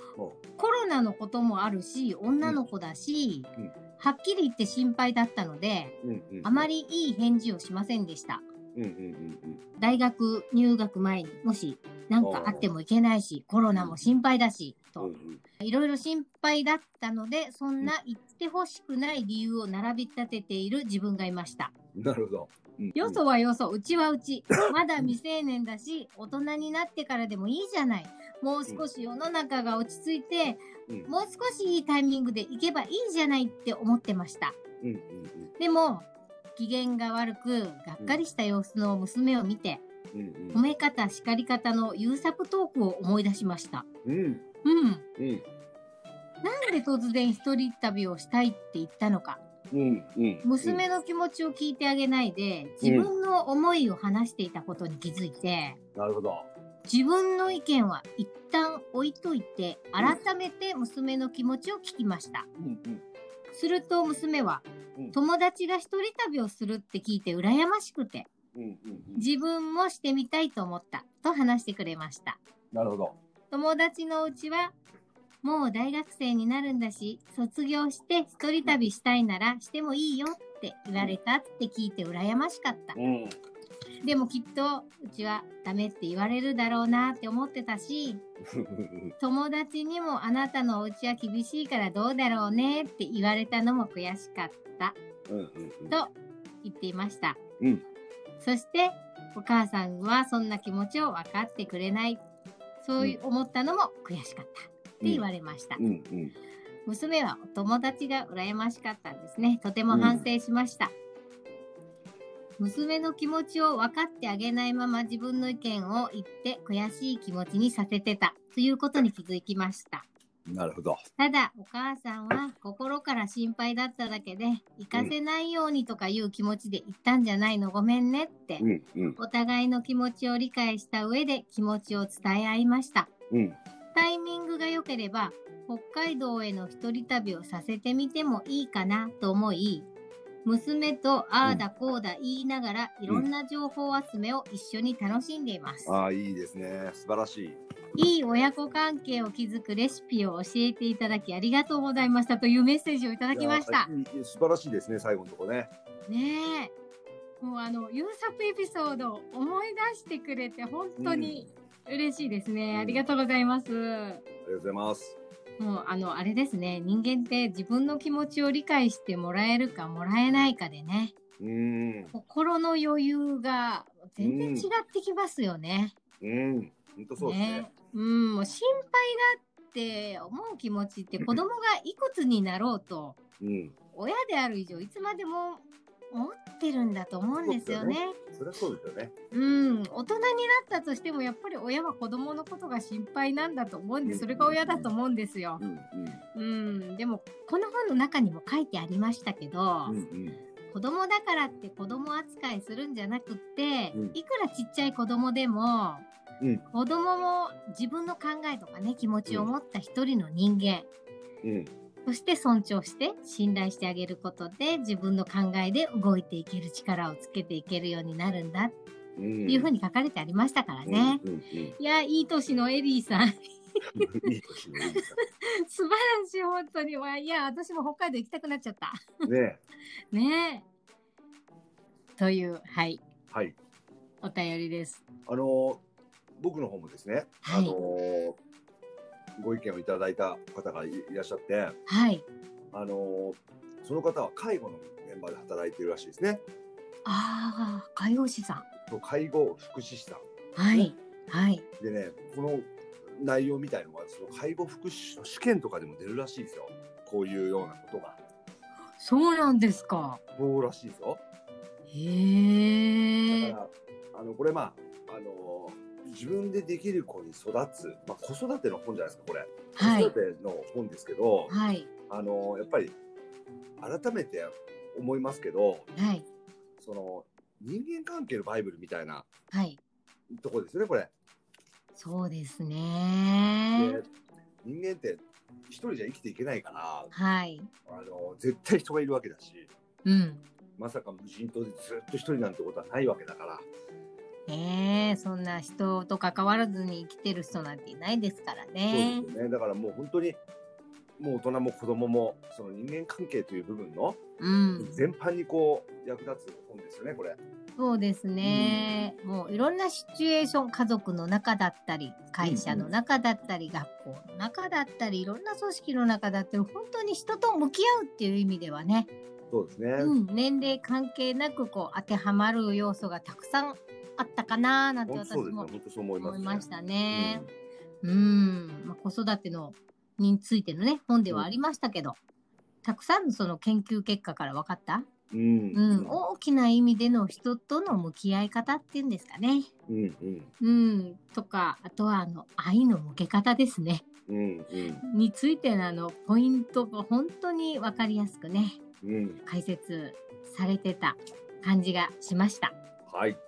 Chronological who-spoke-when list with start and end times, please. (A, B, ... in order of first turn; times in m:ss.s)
0:00.6-0:08.4 A
0:06.0-0:06.7 B
0:08.7-0:09.6 B
0:09.8-0:21.7 A
0:12.2-0:12.7 B
0:15.0-0:15.4 B
0:21.9-0:23.2 B
0:23.0-0:34.6 A
0:34.8-0:35.5 B
0:35.6-0:39.8 A
0:40.1-0:40.6 B
0:40.5-0:43.8 A
0:44.0-0:44.4 B
0:44.6-0:45.0 A
0:45.2-0:45.4 B
0:46.4-0:49.4 A
0:49.7-0:50.8 B
0:50.4-0:55.8 A
0:52.8-0:53.1 B
0:55.9-0:56.5 B
0:56.8-1:02.4 A
1:02.6-1:03.0 B
1:03.5-1:08.3 A
1:08.5-1:09.3 B
1:09.2-1:12.4 A
1:12.7-1:13.2 B
1:13.5-1:14.8 A
1:15.4-1:23.0 A
1:22.9-1:23.4 B
1:24.0-1:28.2 A
1:28.4-1:29.1 B
1:29.2-1:35.0 A
1:35.3-1:36.0 B
1:35.9-1:37.4 A
1:38.4-1:42.2 A
1:42.8-1:45.8 A
1:45.8-1:46.3 B
1:46.8-1:50.9 A
1:49.9-1:50.3 B
1:52.6-2:00.1 A
2:00.4-2:01.0 B
2:01.2-2:08.6 A
2:08.6-2:09.2 B
2:09.2-2:13.1 A
2:13.3-2:13.6 B
2:13.9-2:19.9 A
2:20.4-2:26.0 A
2:25.8-2:27.6 B
2:28.0-2:33.9 A
2:33.3-2:35.7 B
2:36.1-2:36.7 A
2:37.4-2:44.2 A
2:41.0-2:41.4 B
2:42.7-2:43.1 B
2:44.4-2:45.2 B
2:45.6-2:51.1 A
2:51.4-2:52.1 B
2:52.1-2:55.9 A
2:54.2-2:54.7 B
2:56.2-2:57.7 B
2:57.2-3:03.2 A
3:03.4-3:03.7 B
3:03.9-3:08.2 A
3:07.4-3:09.1 B
3:09.3-3:15.6 A
3:14.0-3:14.9 B
3:15.6-3:16.2 B
3:16.3-3:19.9 A
3:19.8-3:20.4 B
3:20.7-3:26.0 A
3:26.7-3:30.9 A
3:31.4-3:31.7 B
3:32.0-3:38.8 A
3:39.2-3:39.7 B
3:39.5-3:41.2 A
3:40.8-3:41.8 B
3:41.8-3:43.4 A
3:44.0-3:45.2 B
3:44.9-3:49.0 A
3:49.2-3:49.6 B
3:50.1-3:50.6 A
3:52.2-3:53.0 A
3:53.3-3:53.6 B
3:54.2-3:55.0 A
3:55.3-3:55.8 B
3:56.4-3:58.4 B
3:57.4-3:57.8 A
3:59.4-4:01.8 B
4:01.9-4:02.2 A
4:02.7-4:06.4 B
4:07.0-4:08.6 A
4:08.9-4:10.9 B
4:10.6-4:11.6 A
4:11.8-4:18.2 B
4:19.0-4:20.2 A
4:20.4-4:21.2 B
4:21.9-4:23.5 A
4:23.3-4:31.5 B
4:29.8-4:30.1 A
4:31.5-4:31.9 A
4:32.1-4:32.9 B
4:33.8-4:35.9 B
4:35.9-4:36.2 A
4:36.8-4:39.3 B
4:39.5-4:39.8 A
4:40.3-4:41.1 B
4:41.9-4:44.0 A
4:43.8-4:44.1 B
4:44.6-4:47.1 B
4:47.1-4:47.7 A
4:47.9-4:49.7 B
4:50.0-4:50.4 A
4:50.8-4:53.6 B
4:54.5-4:59.2 A
4:58.9-5:00.4 B
5:01.2-5:04.2 B
5:04.4-5:05.0 A
5:04.8-5:07.4 B
5:07.8-5:19.1 A
5:08.4-5:09.0 B
5:12.4-5:12.9 B
5:19.5-5:20.2 B
5:20.0-5:25.7 A
5:25.1-5:27.5 B
5:26.2-5:27.4 A
5:28.0-5:32.2 A
5:32.8-5:35.1 A
5:35.3-5:36.2 B
5:35.7-5:39.7 A
5:39.9-5:40.5 B
5:40.6-5:44.0 A
5:44.3-5:45.0 B
5:45.0-5:48.8 A
5:49.0-5:49.4 B
5:49.4-5:52.8 A
5:53.1-5:53.4 B